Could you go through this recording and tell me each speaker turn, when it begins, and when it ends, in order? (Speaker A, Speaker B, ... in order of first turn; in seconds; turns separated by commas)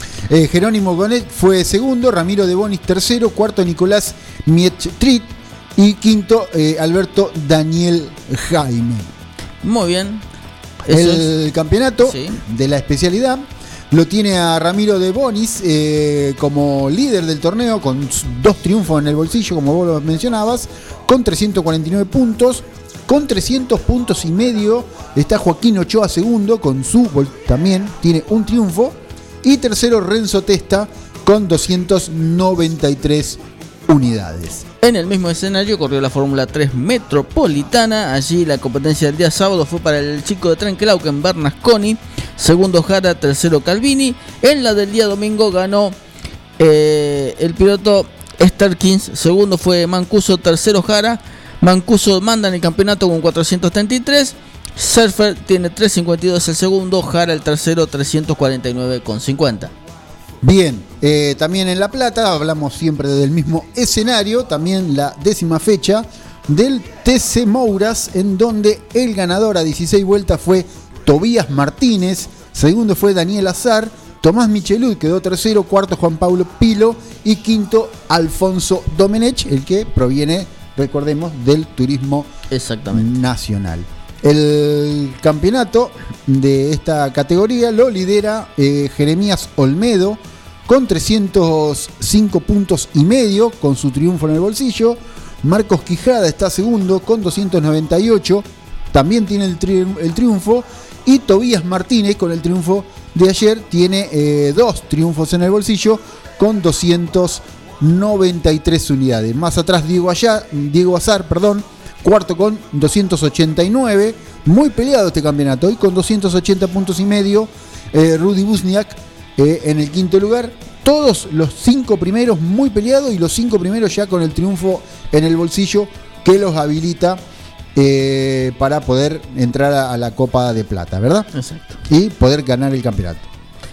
Speaker A: 0.3-9.1, Speaker B: 9.6-10.2, Speaker B: 10.9-11.3, Speaker A: 10.9-34.6, Speaker B: 12.0-12.4, Speaker B: 34.8-46.0, Speaker B: 46.6-59.7, Speaker A: 60.4-82.3, Speaker B: 82.5-83.1, Speaker A: 82.9-127.2, Speaker A: 127.7-131.3, Speaker B: 131.3-131.8, Speaker A: 131.9-133.3